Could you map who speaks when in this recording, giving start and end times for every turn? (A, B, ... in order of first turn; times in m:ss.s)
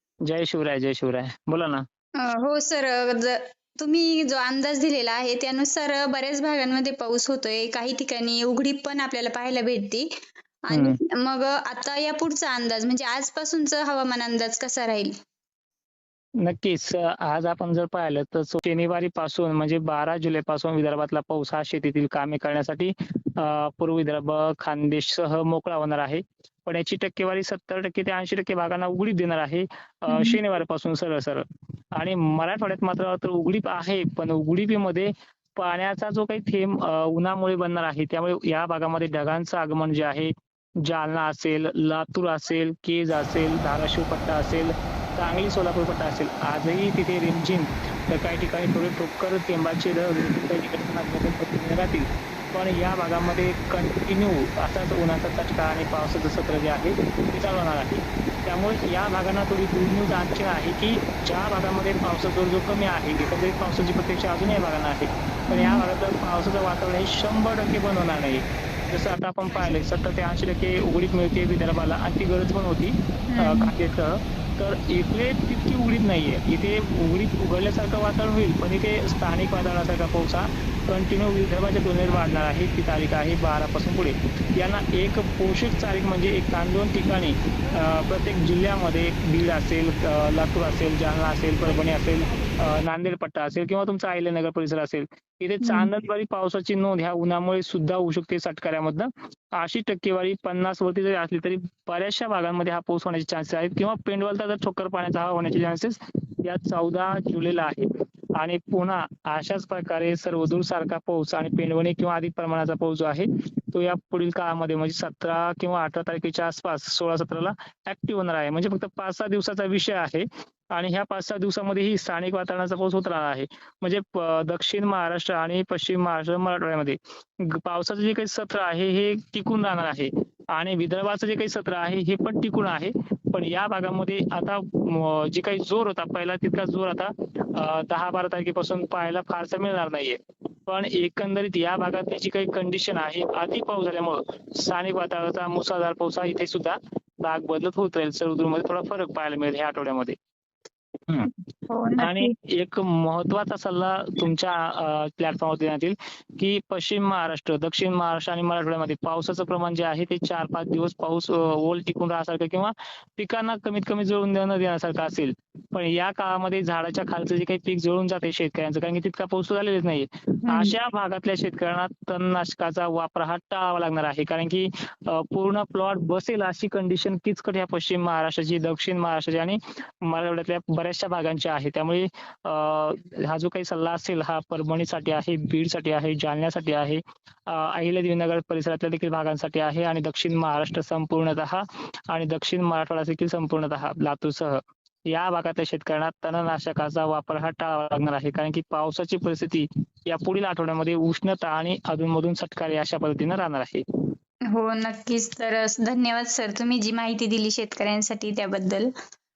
0:00.2-0:01.8 A
0:02.2-0:10.1 B
0:10.7-0:15.1 B
0:10.7-0:11.0 A
0:16.4-0:31.4 A
0:30.1-0:30.4 B
0:31.9-0:40.3 A
0:40.8-2:30.2 A
1:05.5-1:05.8 B
1:13.3-1:13.7 B
1:35.6-1:35.9 B
2:31.7-2:32.3 B
2:32.0-3:23.8 A
2:50.5-2:50.7 B
3:24.5-3:28.9 B